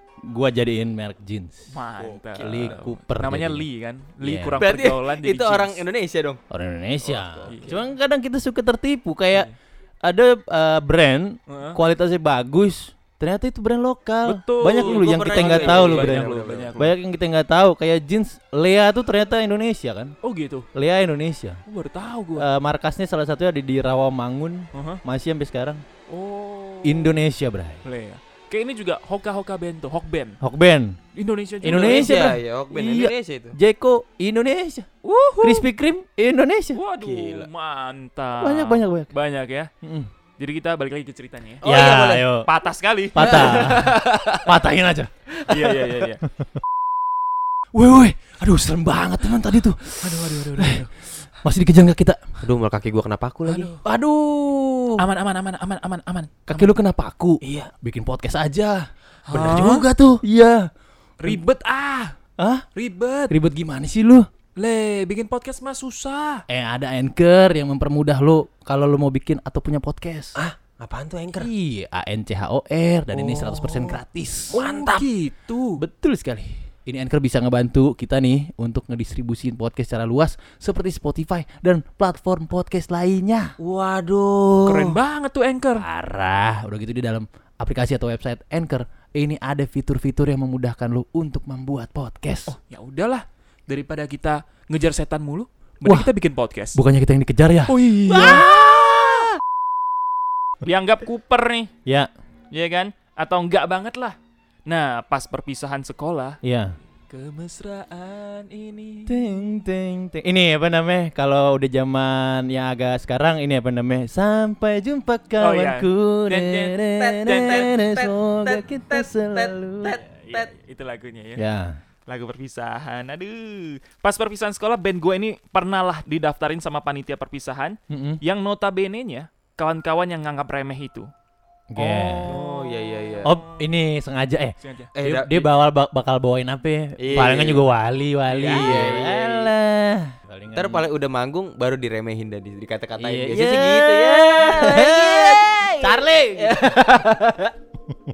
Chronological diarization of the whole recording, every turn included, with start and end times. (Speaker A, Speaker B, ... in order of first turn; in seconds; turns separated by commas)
Speaker A: 0.2-1.7, Speaker B: 1.7-5.8, Speaker C: 2.0-2.8, Speaker A: 2.4-3.7, Speaker A: 4.2-4.6, Speaker C: 4.6-6.4, Speaker A: 6.5-9.5, Speaker C: 7.1-7.8, Speaker B: 7.1-7.9, Speaker A: 10.0-20.1, Speaker B: 11.5-11.8, Speaker B: 14.2-16.9, Speaker C: 14.7-16.8, Speaker B: 20.2-20.7, Speaker A: 20.7-21.6, Speaker B: 21.7-22.5, Speaker A: 22.4-25.8, Speaker B: 24.7-25.0, Speaker B: 26.1-27.2, Speaker A: 26.8-27.8, Speaker B: 27.9-30.4, Speaker A: 30.4-31.0, Speaker B: 31.1-32.3, Speaker A: 31.6-34.9, Speaker C: 31.6-33.6, Speaker B: 35.0-35.7, Speaker A: 35.4-36.8, Speaker B: 36.7-39.7, Speaker C: 37.0-37.5, Speaker A: 38.4-39.1, Speaker A: 39.8-40.1, Speaker B: 40.4-41.7, Speaker C: 41.6-42.3, Speaker A: 41.6-42.5, Speaker B: 42.5-44.3, Speaker A: 43.1-45.1, Speaker C: 43.2-44.4, Speaker B: 45.4-46.2, Speaker C: 45.5-45.8, Speaker A: 47.7-50.9, Speaker B: 50.0-50.9, Speaker A: 51.4-52.2, Speaker C: 52.4-53.8, Speaker B: 53.5-53.8, Speaker A: 53.8-55.1, Speaker B: 55.0-56.8, Speaker A: 56.5-60.7, Speaker C: 57.4-57.7, Speaker B: 59.3-59.9, Speaker B: 61.2-62.1, Speaker A: 62.4-62.6, Speaker B: 62.8-63.4, Speaker A: 63.3-64.3, Speaker B: 64.6-66.5, Speaker A: 66.5-70.4, Speaker C: 70.3-71.5, Speaker A: 71.4-74.6, Speaker B: 73.1-75.8, Speaker C: 74.5-75.1, Speaker A: 75.8-83.5, Speaker C: 83.6-85.0, Speaker B: 84.7-85.8, Speaker A: 85.8-92.5, Speaker B: 92.5-96.8, Speaker A: 95.8-96.1, Speaker A: 96.7-99.3, Speaker B: 97.7-98.7, Speaker B: 100.6-101.7, Speaker A: 101.8-102.1, Speaker B: 102.5-104.2, Speaker B: 104.7-106.4, Speaker A: 106.4-106.8, Speaker B: 107.1-109.4, Speaker A: 109.1-120.0, Speaker B: 115.4-117.8, Speaker C: 117.0-120.5, Speaker B: 119.8-121.4, Speaker A: 121.4-121.8, Speaker B: 122.1-131.1, Speaker A: 127.9-128.2, Speaker A: 131.7-132.4, Speaker B: 131.8-133.7, Speaker C: 132.2-133.3, Speaker A: 133.2-140.8, Speaker B: 134.6-134.9, Speaker C: 134.9-135.5, Speaker C: 137.0-137.7, Speaker B: 138.3-139.0, Speaker C: 138.4-139.5, Speaker C: 140.5-147.5, Speaker A: 143.0-146.6